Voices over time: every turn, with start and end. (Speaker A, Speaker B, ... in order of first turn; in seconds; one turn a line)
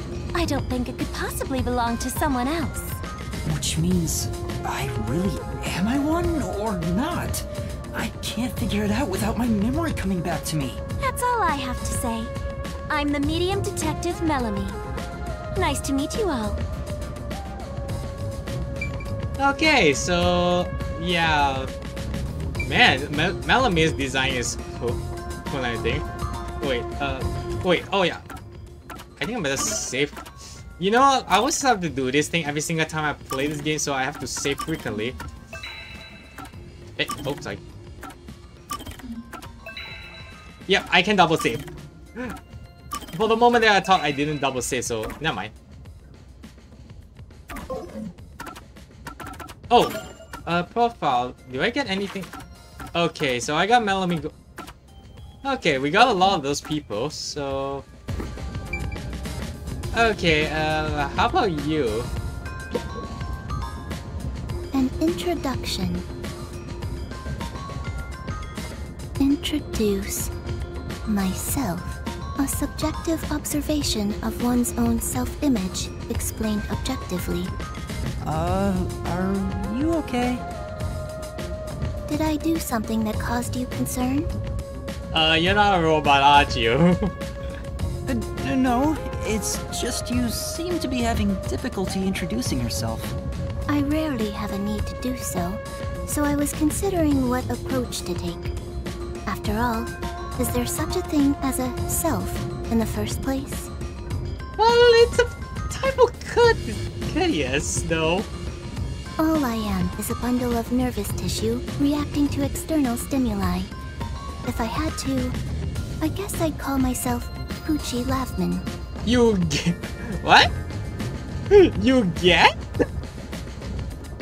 Speaker A: 0.3-3.0
Speaker B: 3.4-10.8
Speaker A: 11.0-12.3
Speaker A: 12.9-14.8
Speaker A: 15.6-16.6
Speaker C: 19.4-21.7
Speaker C: 22.6-25.0
Speaker C: 25.5-26.0
Speaker C: 26.6-28.2
Speaker C: 29.2-30.2
Speaker C: 30.8-35.1
Speaker C: 37.0-37.6
Speaker C: 40.7-42.3
Speaker C: 43.1-45.5
Speaker C: 49.7-52.3
Speaker C: 52.9-54.3
Speaker C: 55.4-57.8
Speaker C: 59.9-62.1
Speaker D: 64.7-66.1
Speaker D: 69.2-70.3
Speaker D: 71.0-77.5
Speaker B: 78.2-80.4
Speaker D: 82.1-84.3
Speaker C: 85.1-87.1
Speaker B: 88.0-93.1
Speaker D: 93.7-98.5
Speaker D: 99.3-103.7
Speaker C: 104.6-108.3
Speaker D: 109.2-113.7
Speaker D: 114.5-115.4
Speaker D: 116.0-118.7
Speaker C: 119.0-120.5
Speaker C: 121.5-122.8